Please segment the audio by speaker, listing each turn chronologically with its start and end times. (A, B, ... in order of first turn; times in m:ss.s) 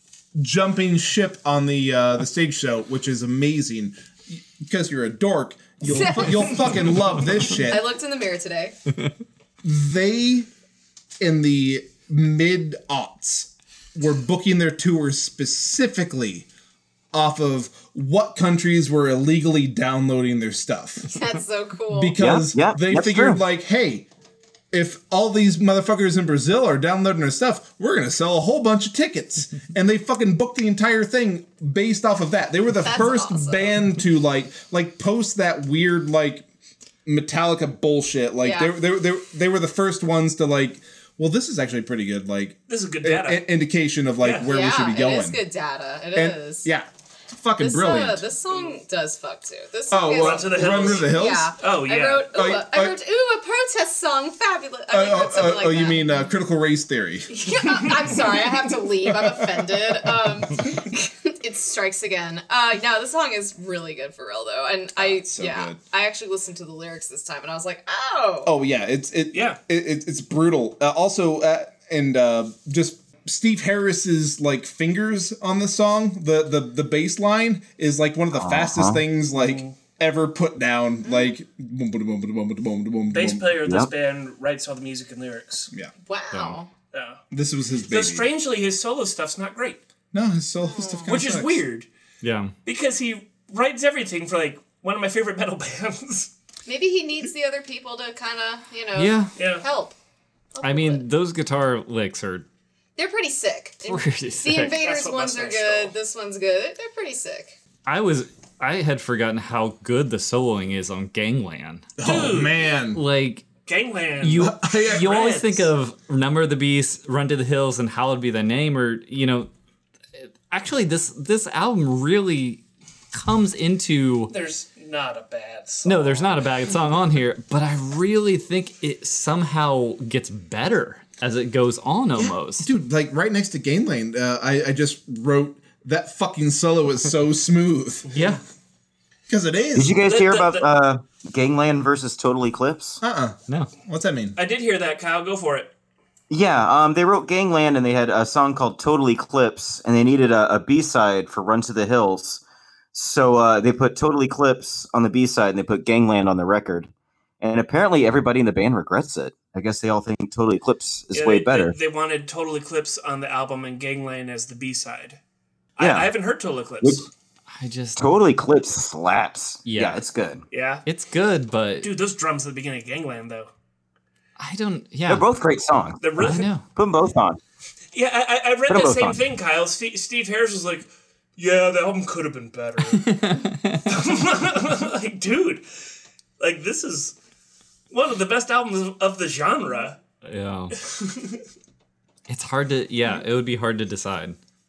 0:00.4-0:07.8 A
0:05.8-0:06.8 B
0:07.5-0:08.8 B
0:09.6-0:10.5 A
0:11.2-0:16.5 A
0:17.1-0:21.1 A
0:21.1-0:22.2 B
0:21.9-0:24.1 A
0:22.2-0:23.4 C
0:24.7-0:36.4 A
0:32.8-0:33.7 B
0:37.0-0:45.4 A
0:38.4-0:38.7 B
0:42.7-0:43.4 D
0:44.2-0:44.5 D
0:44.4-0:46.7 B
0:46.1-0:48.2 A
0:47.6-0:56.2 B
0:49.9-0:51.5 A
0:50.1-0:52.3 D
0:52.3-0:53.0 A
0:54.9-0:57.9 A
0:57.3-1:08.5 B
0:59.1-0:59.6 A
1:05.0-1:05.8 A
1:08.4-1:23.5 A
1:09.3-1:09.6 D
1:18.3-1:19.0 C
1:19.3-1:19.8 D
1:21.0-1:21.3 B
1:23.1-1:25.7 D
1:23.6-1:23.9 C
1:26.0-1:26.7 B
1:26.9-1:27.2 D
1:27.3-1:28.3 A
1:27.9-1:29.8 D
1:30.1-1:31.6 A
1:30.6-1:31.1 B
1:31.1-1:31.9 D
1:32.2-1:32.5 E
1:32.6-1:36.3 D
1:36.6-1:39.9 B
1:38.9-1:39.3 E
1:39.4-1:39.6 D
1:40.5-1:41.0 B
1:40.6-1:42.4 E
1:43.0-1:47.6 B
1:43.8-1:44.8 E
1:44.7-1:45.9 D
1:47.8-1:52.4 E
1:52.0-1:52.6 D
1:52.0-1:53.0 A
1:52.9-1:53.5 E
1:53.6-1:55.7 D
1:54.2-1:59.5 E
1:54.4-1:55.1 A
2:00.2-2:04.3 E
2:04.3-2:06.5 D
2:05.8-2:12.7 E
2:12.3-2:18.1 A
2:18.1-2:18.4 D
2:18.1-2:18.4 E
2:19.3-2:20.0 A
2:19.7-2:23.0 C
2:20.0-2:20.7 D
2:23.0-2:24.4 A
2:24.4-2:25.7 D
2:26.3-2:32.4 C
2:32.9-2:36.9 C
2:37.4-2:41.7 C
2:41.1-2:45.2 D
2:45.8-2:47.1 D
2:45.8-2:46.1 C
2:47.5-2:48.0 E
2:48.0-2:50.4 C
2:49.6-2:50.0 E
2:50.5-2:50.8 D
2:50.8-2:51.9 E
2:51.8-2:53.5 D
2:54.4-2:55.2 E
2:55.1-2:56.1 C
2:56.0-2:56.5 D
2:56.2-2:56.6 E
2:56.7-2:57.4 C
2:57.9-3:03.1 D
2:58.7-2:59.2 C
3:02.9-3:03.9 E
3:03.9-3:05.6 D
3:06.4-3:07.2 D
3:07.9-3:10.0 D
3:10.2-3:10.7 E
3:10.8-3:11.4 D
3:12.3-3:14.4 E